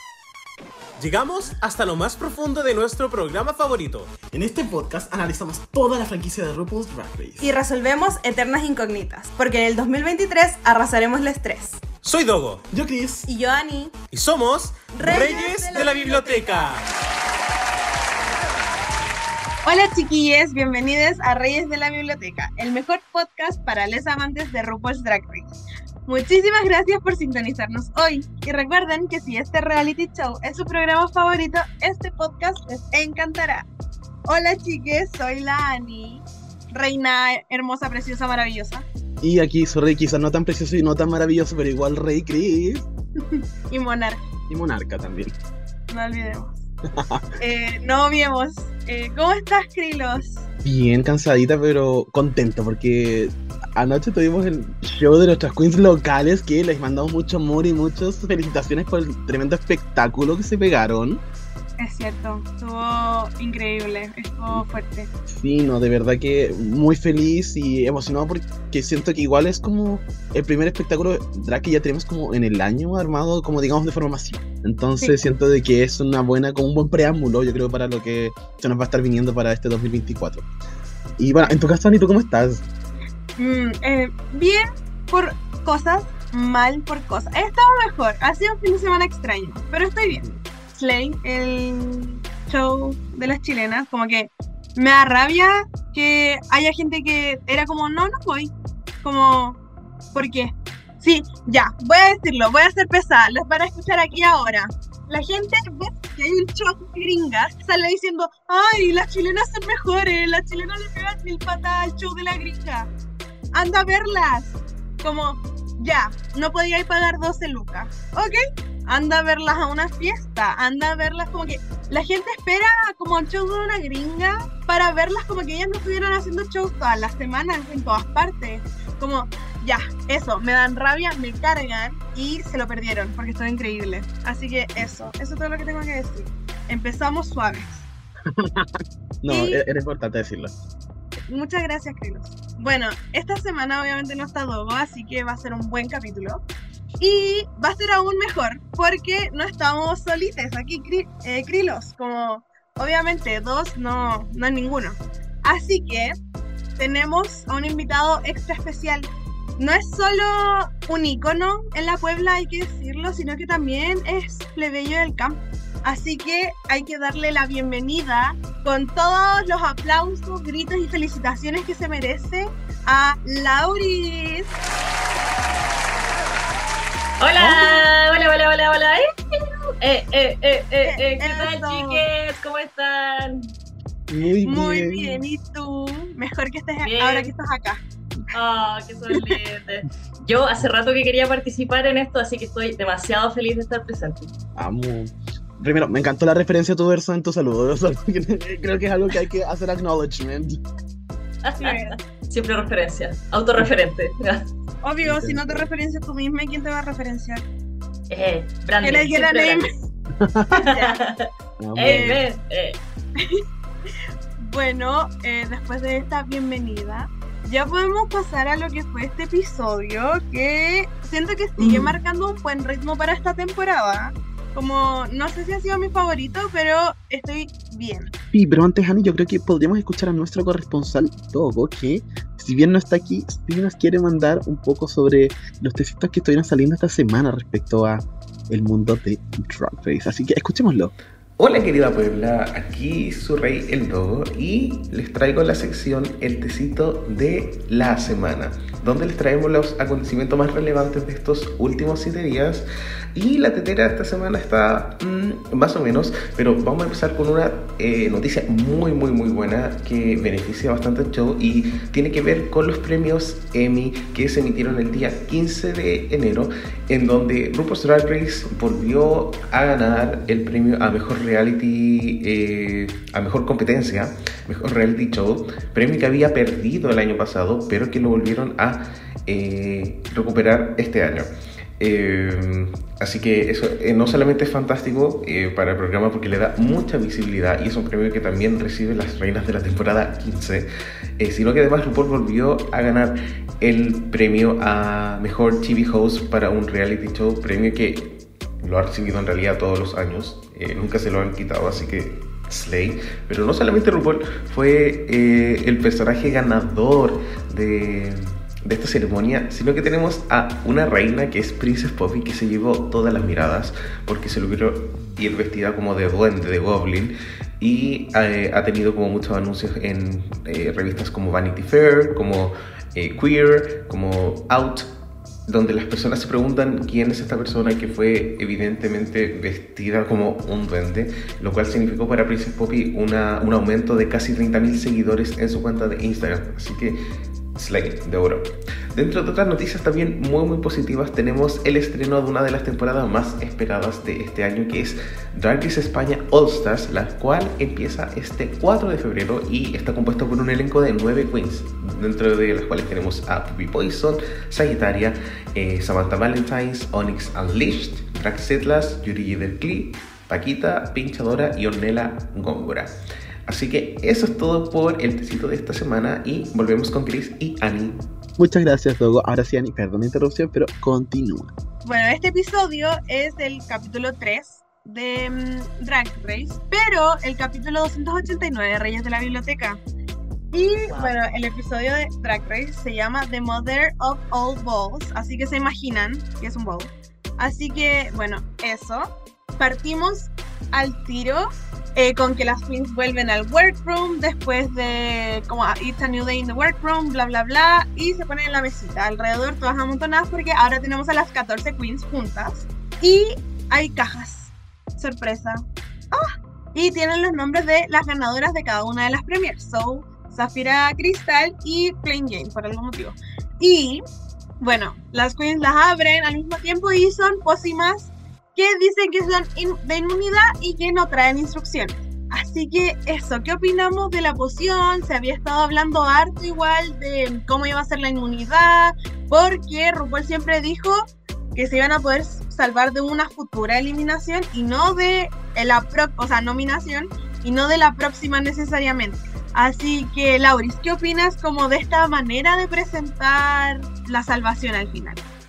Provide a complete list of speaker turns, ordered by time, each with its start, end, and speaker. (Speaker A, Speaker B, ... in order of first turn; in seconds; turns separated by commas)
Speaker A: 1.0-4.1, Speaker B: 4.3-7.5, Speaker C: 7.4-11.8, Speaker A: 12.0-12.6, Speaker B: 12.7-13.3, Speaker C: 13.3-13.9, Speaker A: 14.1-16.8, Speaker C: 14.9-16.7, Speaker C: 19.6-33.7, Speaker C: 34.3-38.9, Speaker B: 39.2-42.9, Speaker C: 43.3-44.2, Speaker B: 44.5-45.4, Speaker C: 45.9-46.6, Speaker C: 47.4-50.5, Speaker B: 50.6-61.2, Speaker C: 61.8-65.1, Speaker B: 65.3-80.5, Speaker B: 81.2-82.7, Speaker C: 83.4-99.6, Speaker C: 100.1-112.9, Speaker C: 113.5-137.9, Speaker B: 138.3-138.7, Speaker B: 139.2-140.5, Speaker C: 139.3-139.6, Speaker C: 141.3-146.4, Speaker C: 147.0-156.2, Speaker C: 156.8-174.5, Speaker D: 177.2-183.5, Speaker C: 177.4-177.8, Speaker C: 180.8-182.1, Speaker B: 184.1-185.2, Speaker C: 184.4-187.8, Speaker D: 186.8-187.3, Speaker D: 188.3-194.3, Speaker B: 194.6-200.6, Speaker D: 201.4-204.5, Speaker C: 201.6-202.0, Speaker C: 204.8-207.4, Speaker B: 205.0-205.7, Speaker D: 208.1-209.7, Speaker C: 208.8-209.8, Speaker B: 210.2-210.5, Speaker C: 210.6-211.0, Speaker D: 210.6-212.8, Speaker B: 211.6-212.2, Speaker C: 211.8-212.2, Speaker C: 214.4-228.1, Speaker B: 221.6-222.0, Speaker B: 228.3-240.9, Speaker E: 241.4-324.9, Speaker E: 325.5-337.0, Speaker E: 337.6-362.9, Speaker E: 363.5-368.0, Speaker B: 368.4-371.5, Speaker C: 371.9-379.8, Speaker C: 380.5-414.0, Speaker D: 380.9-381.1, Speaker C: 414.6-431.0, Speaker C: 431.6-445.2